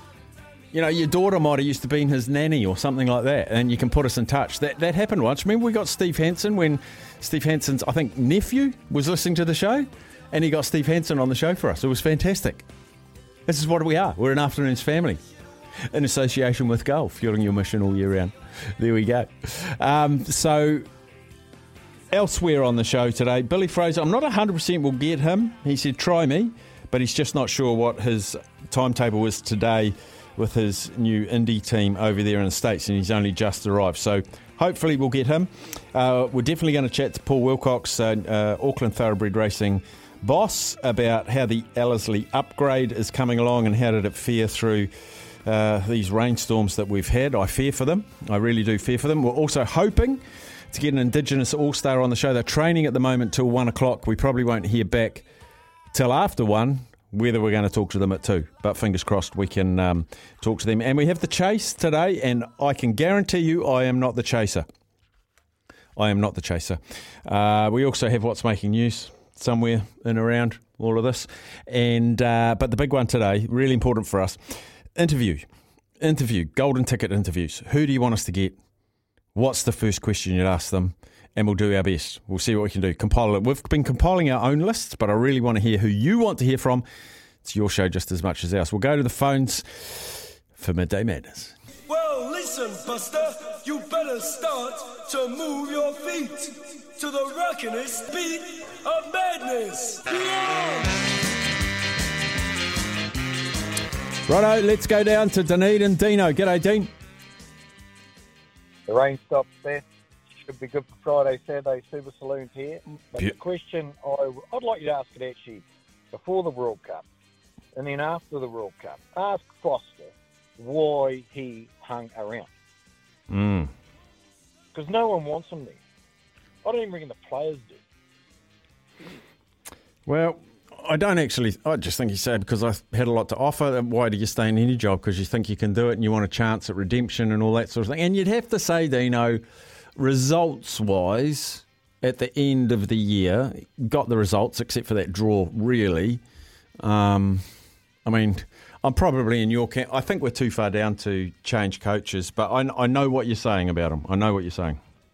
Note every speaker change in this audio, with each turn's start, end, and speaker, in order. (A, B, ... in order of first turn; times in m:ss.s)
0:00.7-0:12.6 A
0:13.5-0:15.2 A
0:15.9-0:20.9 A
0:22.1-0:44.9 A
0:45.4-0:55.2 A
0:55.9-1:04.7 A
1:06.0-1:15.5 A
1:16.0-1:18.6 A
1:19.3-1:26.8 A
1:27.4-1:31.5 A
1:31.9-1:41.0 B
1:44.3-1:46.9 A
1:48.9-1:49.8 C
1:50.4-1:57.0 C
1:57.7-2:02.5 C
2:03.3-2:03.7 A
2:04.7-2:05.8 C
2:06.6-2:07.8 C
2:10.1-2:19.4 A
2:20.0-2:26.2 A
2:26.8-2:27.5 A
2:28.0-2:34.8 A